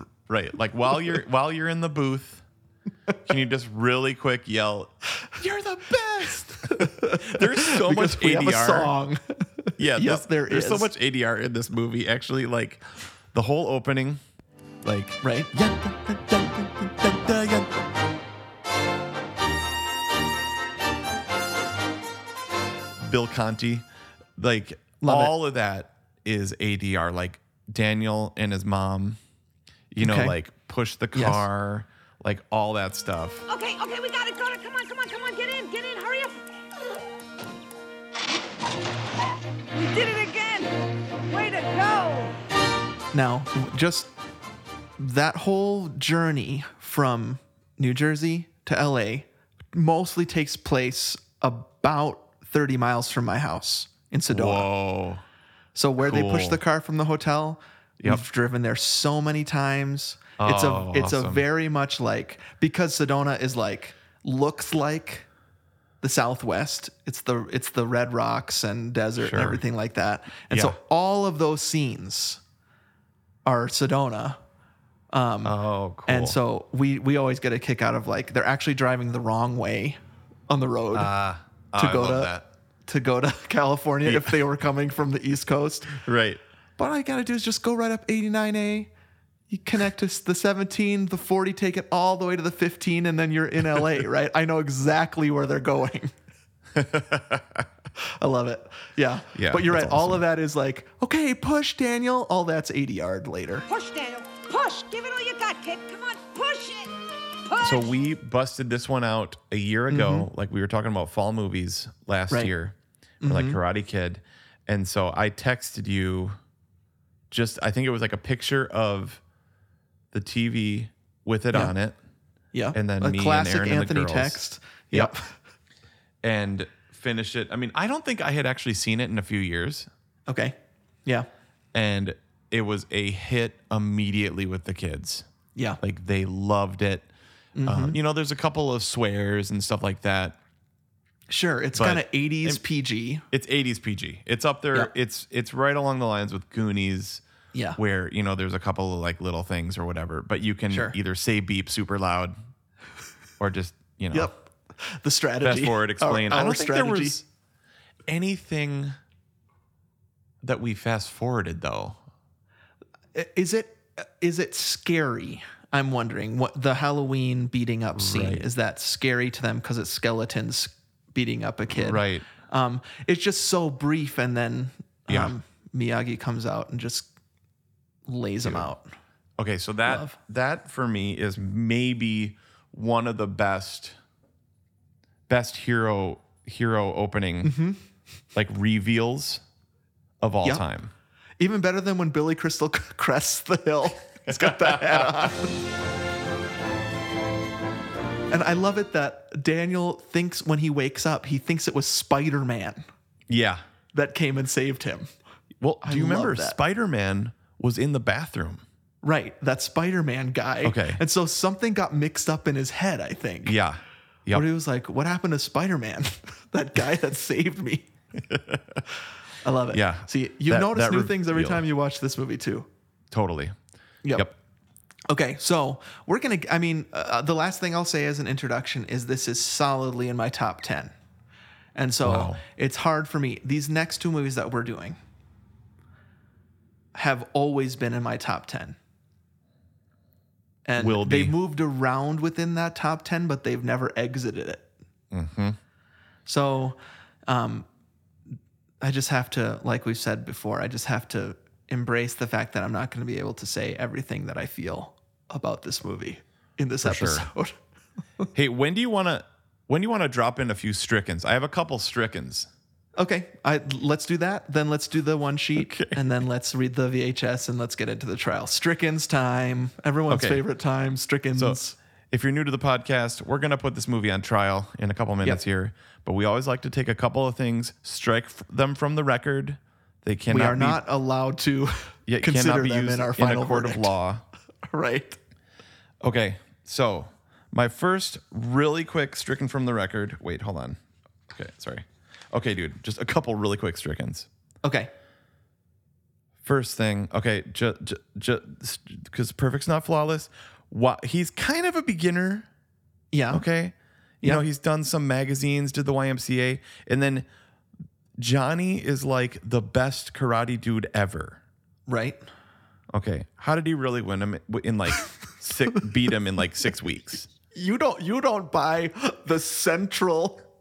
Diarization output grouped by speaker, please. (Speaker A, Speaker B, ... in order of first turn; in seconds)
Speaker A: 0.3-2.4, 3.2-8.9, 9.8-14.2, 14.8-17.8, 23.0-23.8, 24.4-29.2, 29.9-33.4, 54.3-55.2, 56.0-56.6, 60.4-61.4, 69.2-69.6, 70.5-70.8, 75.4-76.4, 80.9-82.5, 84.0-84.4, 85.9-86.4, 96.7-97.6, 99.3-100.2, 107.6-116.4, 117.3-119.2, 120.1-122.0, 122.7-125.1, 126.2-129.9, 131.7-135.2, 135.8-137.1, 137.6-140.4, 141.7-142.6, 143.3-147.2, 147.8-152.4, 153.4-154.3, 155.4-157.2, 158.1-159.0, 160.4-162.0, 167.9-168.4, 171.7-172.3, 175.1-175.3, 178.4-178.7, 179.4-184.0, 185.3-187.6, 188.3-189.4, 190.2-190.9, 194.3-195.3, 203.3-203.6, 205.6-208.6, 210.6-211.0, 213.4-214.4, 218.3-218.8, 219.7-221.6, 223.1-223.6, 232.0-232.4, 240.8-241.3, 245.1-245.6, 256.8-257.2, 258.3-262.5, 265.6-266.0, 270.1-270.4, 272.1-280.8, 282.1-284.2, 286.0-294.3, 296.4-302.5, 303.3-307.3, 308.2-311.4, 312.9-317.3
Speaker B: 6.6-10.9, 15.2-15.5, 25.0-25.3, 30.0-30.3, 31.1-31.4, 43.1-44.1, 45.0-54.7, 55.7-65.2, 66.0-72.4, 73.5-74.4, 75.1-75.5, 76.0-81.1, 81.8-82.3, 82.8-86.0, 86.8-88.9, 89.5-96.1, 98.2-103.6, 109.9-110.3, 113.2-113.6, 122.5-125.3, 130.3-131.3, 137.5-138.0, 141.3-143.2, 150.7-150.9, 154.1-157.2, 163.1-177.1, 178.1-178.9, 179.8-180.2, 187.4-187.8, 191.4-195.6, 198.3-202.8, 203.9-205.1, 205.8-206.6, 209.0-213.6, 214.3-217.9, 219.4-222.7, 224.0-224.3, 225.1-230.9, 231.7-235.0, 236.9-238.8, 240.6-244.7, 246.2-247.7, 248.8-257.6, 263.0-271.8, 280.3-283.9, 284.7-285.2, 294.6-294.9, 303.1-303.4, 311.9-312.2, 317.5-320.4
Speaker C: 33.5-36.4, 39.8-40.8, 41.3-42.4, 103.7-106.9, 107.5-107.8